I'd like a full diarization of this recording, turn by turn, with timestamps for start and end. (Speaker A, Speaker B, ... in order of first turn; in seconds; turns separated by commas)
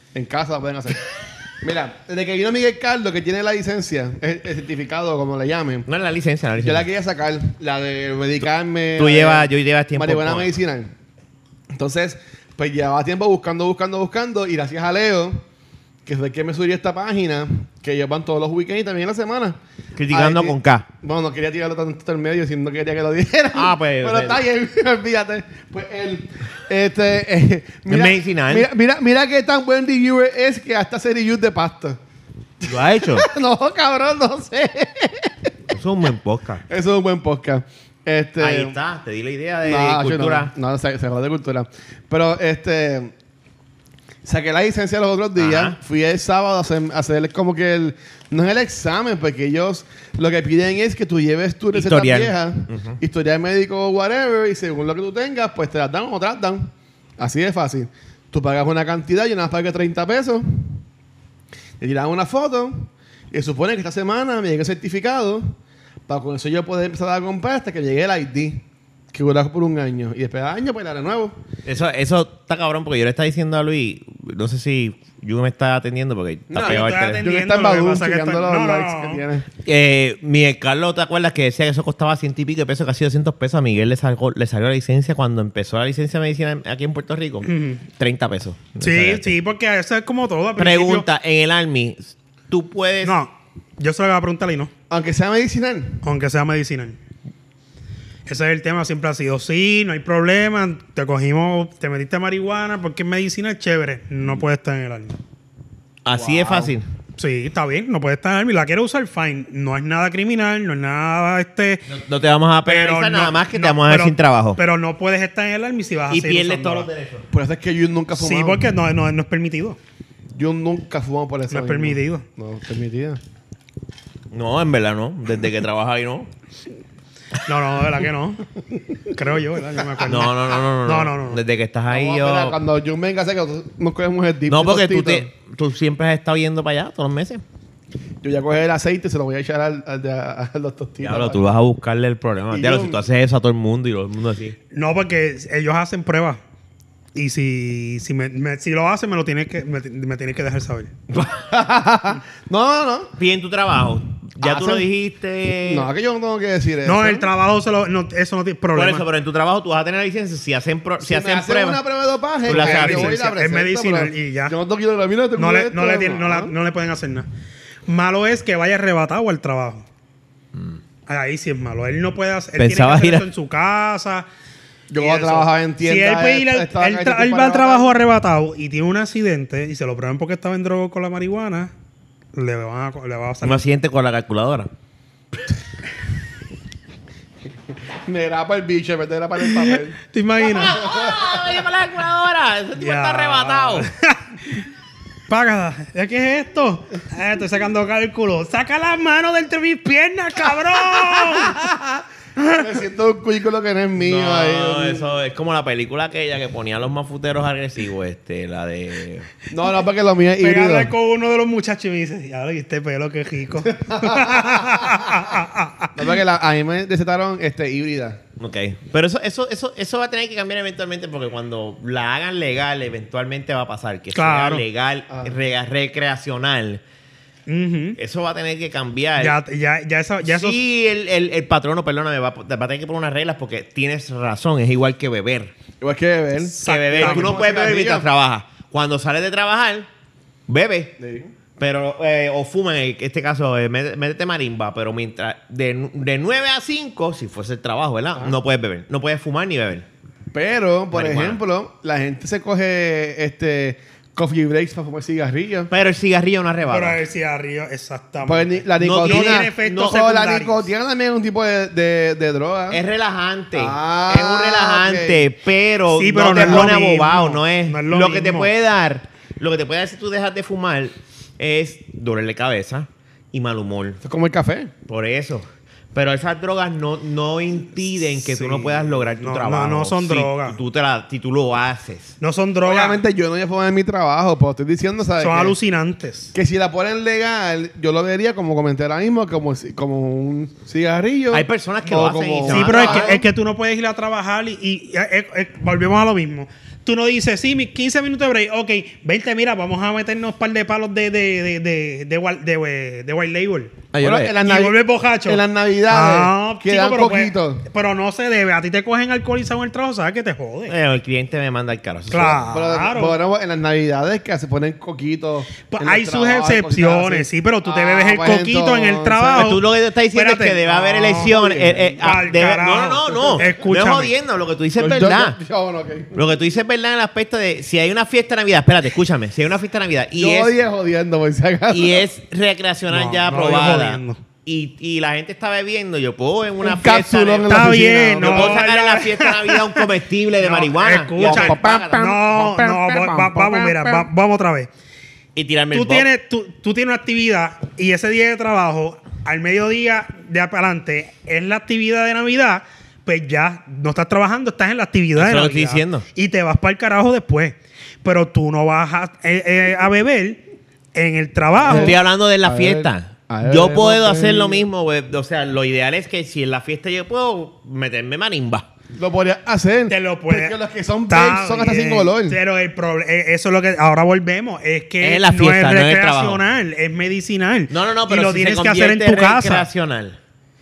Speaker A: 0.1-1.0, Speaker A: 1.6-5.9, Speaker B: 5.9-6.9, Speaker A: 6.6-10.9, Speaker B: 9.0-10.5, Speaker A: 11.7-15.4, Speaker A: 16.1-19.6, Speaker B: 20.0-20.9, Speaker A: 20.1-32.0, Speaker B: 23.5-24.4, Speaker B: 27.9-28.7, Speaker A: 32.6-35.5, Speaker B: 32.6-33.3, Speaker B: 35.7-36.6, Speaker A: 36.7-38.8, Speaker B: 38.4-40.5, Speaker A: 39.6-43.1, Speaker A: 44.2-60.8, Speaker B: 45.4-45.8, Speaker B: 51.7-53.0, Speaker A: 61.8-65.5, Speaker A: 66.1-71.3, Speaker B: 71.7-77.2, Speaker A: 76.5-79.5, Speaker C: 76.6-79.2, Speaker B: 79.7-89.3, Speaker C: 87.5-87.8, Speaker C: 88.8-91.0, Speaker B: 90.6-93.2, Speaker C: 93.0-94.7, Speaker A: 94.9-96.0, Speaker C: 96.0-97.0, Speaker C: 98.3-105.2, Speaker B: 106.0-106.9, Speaker A: 106.1-106.8, Speaker C: 107.2-111.8, Speaker B: 111.9-114.6, Speaker C: 112.7-116.9, Speaker B: 116.1-117.3, Speaker A: 117.3-118.7, Speaker C: 118.2-119.8, Speaker A: 120.3-123.2, Speaker C: 121.5-122.2, Speaker B: 124.3-126.3, Speaker C: 127.5-128.4, Speaker C: 129.1-131.4, Speaker B: 130.1-132.6, Speaker A: 131.9-135.3, Speaker B: 134.5-137.4, Speaker A: 138.2-141.4, Speaker B: 141.0-144.6, Speaker A: 142.5-143.0, Speaker C: 144.7-146.4, Speaker C: 147.2-150.9, Speaker A: 151.2-153.1, Speaker B: 153.2-155.9, Speaker A: 154.4-154.9, Speaker A: 155.6-157.3, Speaker C: 156.8-159.1, Speaker B: 158.7-161.8, Speaker A: 161.0-166.5, Speaker B: 162.5-163.2, Speaker C: 162.5-164.6, Speaker C: 165.4-167.3, Speaker C: 167.9-169.8, Speaker C: 171.1-174.3, Speaker B: 172.6-173.3, Speaker A: 174.9-178.0, Speaker C: 175.0-181.7, Speaker C: 182.3-183.6, Speaker B: 183.4-184.7, Speaker A: 188.1-190.0, Speaker C: 189.5-190.8, Speaker B: 190.4-193.9, Speaker A: 190.6-191.5, Speaker C: 192.8-194.7, Speaker C: 195.3-201.7, Speaker A: 201.5-201.9, Speaker A: 202.5-205.0, Speaker B: 204.0-209.3, Speaker A: 209.5-210.9, Speaker C: 210.4-216.1, Speaker A: 213.7-215.1, Speaker A: 216.0-218.2, Speaker B: 218.4-226.8, Speaker C: 224.2-224.6, Speaker C: 227.5-228.0, Speaker B: 228.0-229.4, Speaker C: 229.2-230.6, Speaker B: 230.2-235.5, Speaker A: 235.8-238.1, Speaker C: 236.6-237.5, Speaker B: 236.6-239.9, Speaker B: 240.5-240.9, Speaker A: 241.0-241.3, Speaker B: 241.6-249.8, Speaker A: 250.3-255.7, Speaker B: 250.9-251.4, Speaker B: 255.7-257.0, Speaker C: 256.7-260.7, Speaker A: 258.2-262.8, Speaker B: 258.8-260.0, Speaker B: 262.7-274.0, Speaker A: 263.6-265.2, Speaker C: 265.9-268.5, Speaker A: 266.3-266.7, Speaker A: 274.0-274.7, Speaker B: 274.9-282.1, Speaker C: 278.3-280.6, Speaker C: 282.2-283.0, Speaker A: 282.6-285.6, Speaker C: 285.2-286.3, Speaker A: 286.3-293.2, Speaker B: 291.3-293.2, Speaker C: 292.5-303.9, Speaker B: 303.9-304.4, Speaker A: 304.0-307.6, Speaker C: 304.4-310.8, Speaker B: 310.7-312.5, Speaker C: 312.1-313.2, Speaker A: 312.5-319.5, Speaker C: 315.7-321.4, Speaker B: 319.3-325.4, Speaker A: 321.2-321.9, Speaker C: 321.9-324.1, Speaker A: 323.1-323.5, Speaker A: 324.8-326.2, Speaker B: 326.1-330.5, Speaker A: 330.1-332.1, Speaker B: 331.7-337.6, Speaker C: 332.9-334.2, Speaker A: 336.6-338.7, Speaker C: 337.5-339.9, Speaker B: 338.2-342.1, Speaker C: 340.4-344.7, Speaker A: 341.2-344.1, Speaker B: 345.4-346.1, Speaker C: 345.7-360.4, Speaker B: 355.2-356.1, Speaker C: 360.9-362.0, Speaker A: 361.6-364.7, Speaker B: 361.6-368.7, Speaker A: 368.9-372.4, Speaker C: 369.9-370.6, Speaker C: 371.1-379.7, Speaker B: 375.0-376.4, Speaker B: 377.7-380.2